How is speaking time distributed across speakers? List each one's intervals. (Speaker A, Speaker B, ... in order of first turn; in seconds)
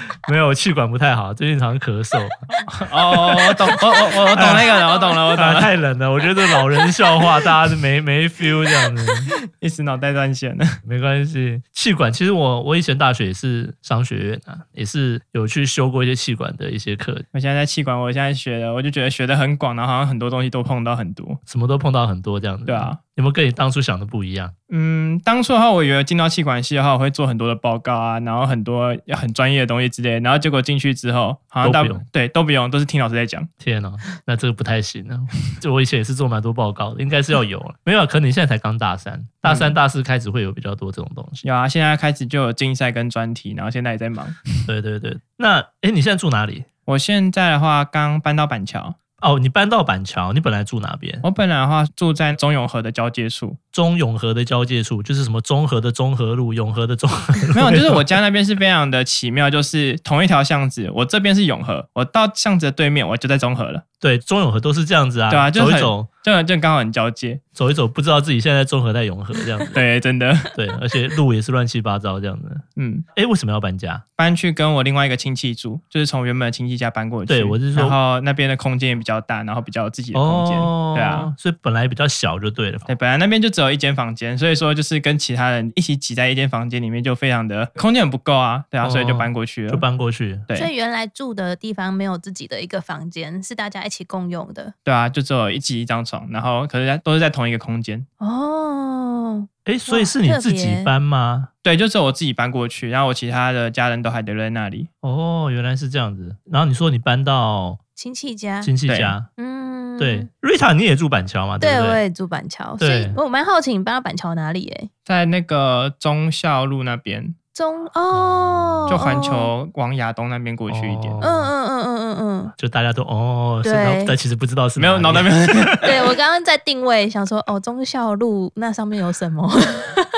Speaker A: 0.2-2.4, 3.2-4.7, 5.3-9.3, 10.8-17.2, 21.5-24.5, 31.6-32.0, 33.6-41.4, 44.6-46.7, 49.2-51.2, 53.7-58.1, 64.0-66.1, 67.5-69.8, 70.5-74.0, 77.3-78.0, 80.1-82.9, 88.8-90.5, 99.7-101.5, 105.0-107.8, 108.6-109.3, 110.0-112.0, 112.8-113.2, 118.1-119.0, 120.7-121.5, 122.5-125.9
Speaker B: 2.7-5.7, 9.3-10.8, 17.3-21.4, 22.6-23.0, 24.7-33.5, 39.4-39.8, 41.4-44.5, 46.9-49.0, 51.2-53.6, 57.5-63.8, 65.3-67.4, 69.7-70.5, 72.8-73.0, 74.2-81.3, 82.9-89.8, 94.8-98.0, 101.6-104.9, 108.9-109.1, 115.1-117.3, 118.9-121.2, 124.8-125.9
Speaker C: 4.7-5.2, 90.5-94.7, 98.2-100.9, 108.0-108.7, 109.4-110.3, 111.6-114.9, 117.5-119.5, 121.2-122.5, 123.6-124.2, 125.8-130.1